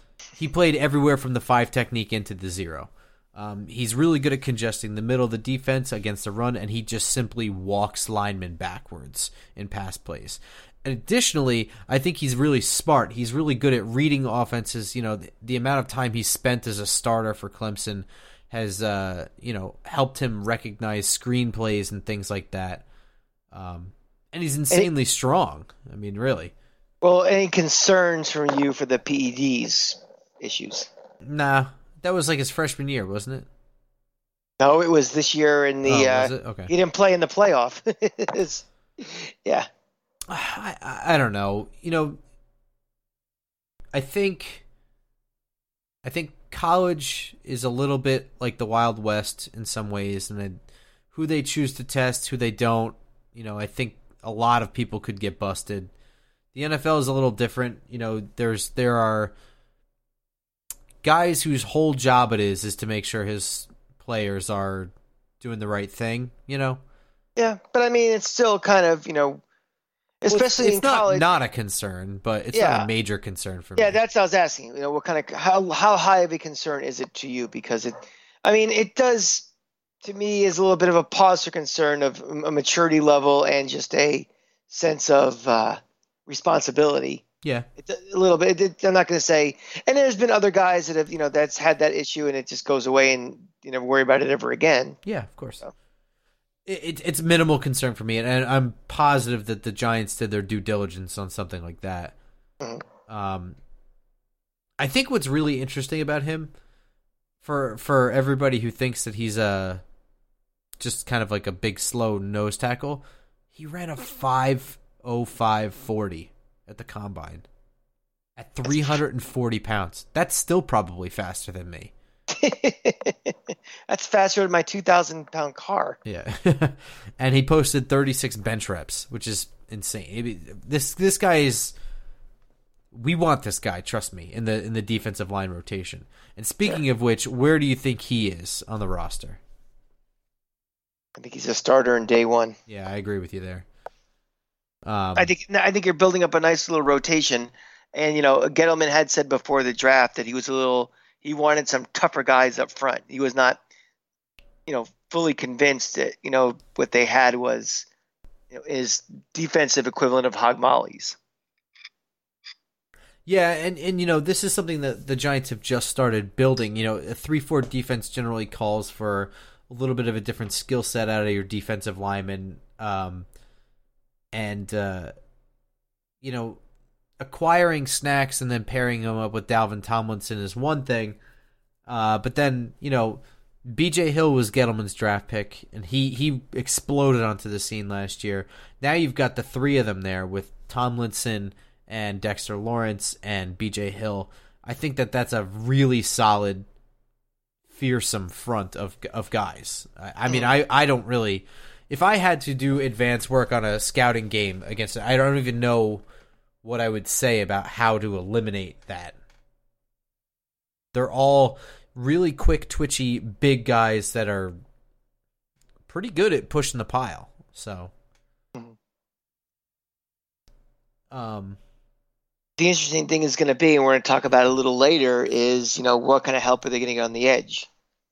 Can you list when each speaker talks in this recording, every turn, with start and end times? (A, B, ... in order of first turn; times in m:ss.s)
0:00.4-0:22.8 A
0:23.5-0:26.5 A
0:27.0-0:30.9 B
0:31.2-0:33.5 A
0:34.6-0:39.7 B
0:35.8-0:36.7 A
0:40.3-0:42.2 A
0:43.9-0:44.6 A
0:46.0-0:50.6 A
0:51.1-0:55.9 A
0:56.5-0:59.3 A
1:01.0-1:06.8 A
1:07.4-1:09.4 B
1:10.2-1:11.3 B
1:10.3-1:14.0 A
1:12.5-1:12.9 B
1:13.8-1:19.5 B
1:20.0-1:27.2 B
1:27.8-1:35.0 B
1:35.0-1:35.6 A
1:36.6-1:42.2 A
1:43.1-1:43.6 A
1:44.8-1:46.5 A
1:47.4-1:49.8 A
1:50.8-1:53.0 A
1:53.5-1:57.4 A
1:58.4-2:01.9 A
2:02.3-2:03.4 B
2:03.9-2:06.0 B
2:06.0-2:11.7 A
2:12.9-2:19.4 A
2:21.2-2:22.6 B
2:22.7-2:23.6 A
2:24.8-2:25.3 A
2:25.2-2:33.6 B
2:34.7-2:37.9 B
2:38.5-2:41.2 B
2:43.2-2:53.3 A
2:54.3-2:55.1 A
2:56.2-2:56.6 A
2:57.2-3:01.2 A
3:01.9-3:16.6 A
3:17.7-3:26.0 A
3:26.6-3:29.2 A
3:30.9-3:34.5 A
3:35.9-3:37.9 A
3:41.1-3:41.6 A
3:42.6-3:47.7 B